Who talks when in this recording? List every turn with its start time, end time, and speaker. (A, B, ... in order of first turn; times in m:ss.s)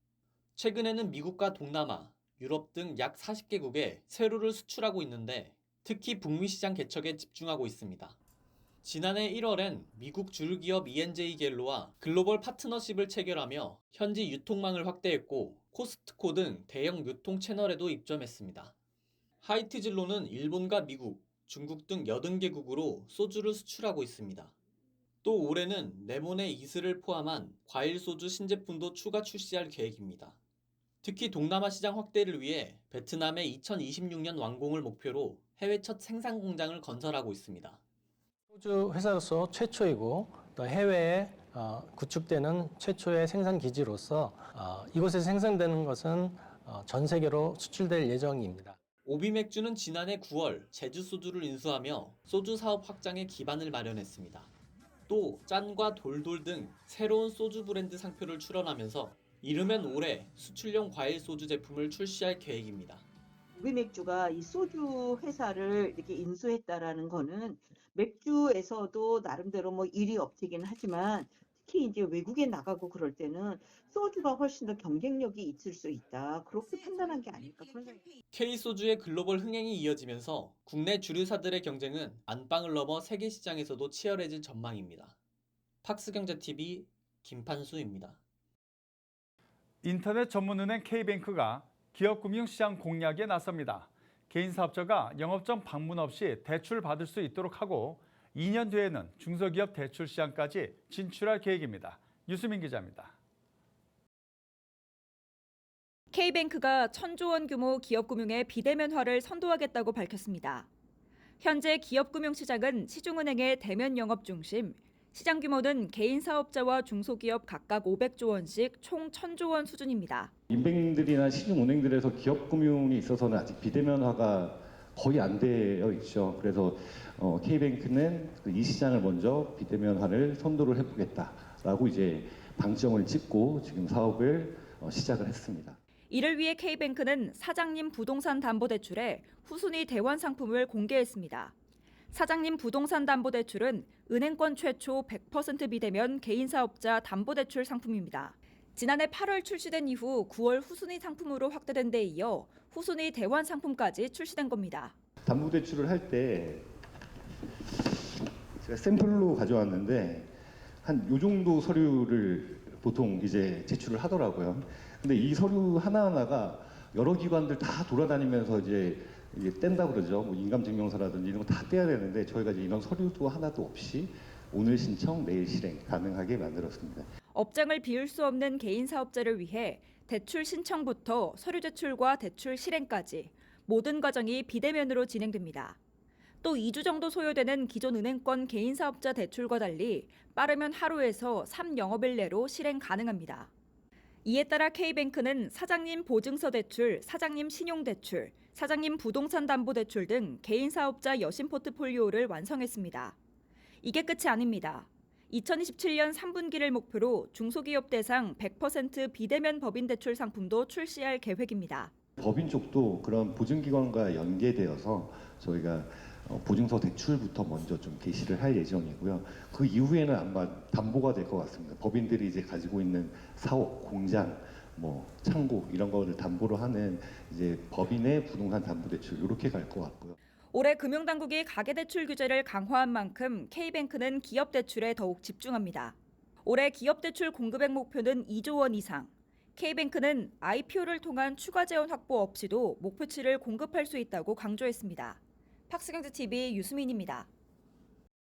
0:00.6-0:08.2 A
0:08.8-0:18.7 A
0:19.4-0:24.5 A
0:25.2-0:30.4 A
0:31.0-0:37.8 A
0:38.5-0:48.8 B
0:49.0-0:54.5 A
0:55.1-1:03.0 A
1:03.6-1:18.1 C
1:18.3-1:25.2 A
1:25.8-1:28.2 A
1:29.8-1:43.1 D
1:46.1-1:50.7 E
1:51.4-2:00.3 E
2:00.5-2:15.8 F
2:16.1-2:21.5 E
2:22.1-2:34.9 E
2:35.2-2:36.7 F
2:37.6-2:57.1 F
2:57.3-3:05.8 E
3:06.4-3:13.5 E
3:14.2-3:23.2 E
3:23.8-3:31.9 E
3:32.2-3:50.2 F
3:50.5-4:07.3 E